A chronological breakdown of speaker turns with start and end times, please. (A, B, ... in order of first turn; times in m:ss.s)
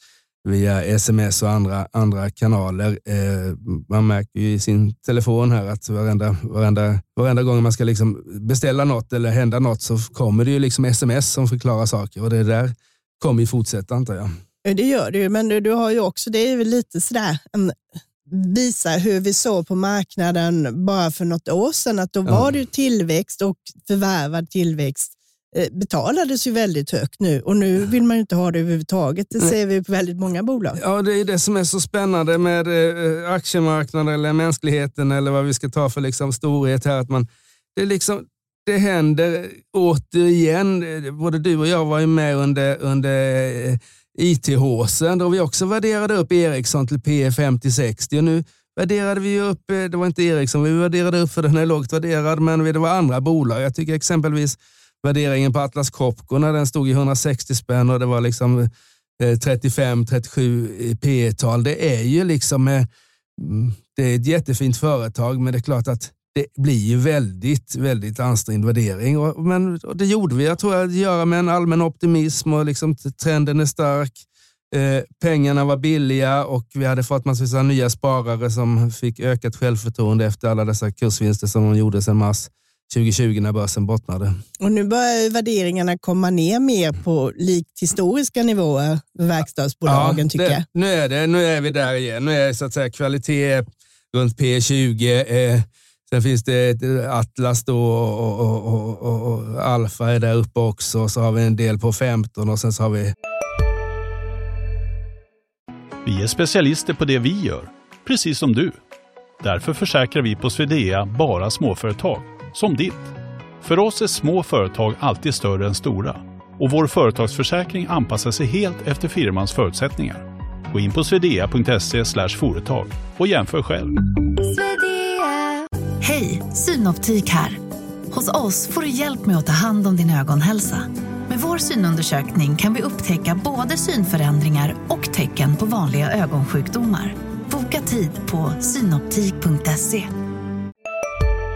0:00.4-0:14.3 A
0:14.6-0:17.8 B
0:18.3-0:30.8 B
0:30.8-1:24.4 A
1:24.6-1:30.6 B
1:29.8-1:43.1 A
1:46.0-1:48.8 C
1:49.4-2:03.9 C
2:04.4-2:07.6 D
2:08.1-2:20.1 D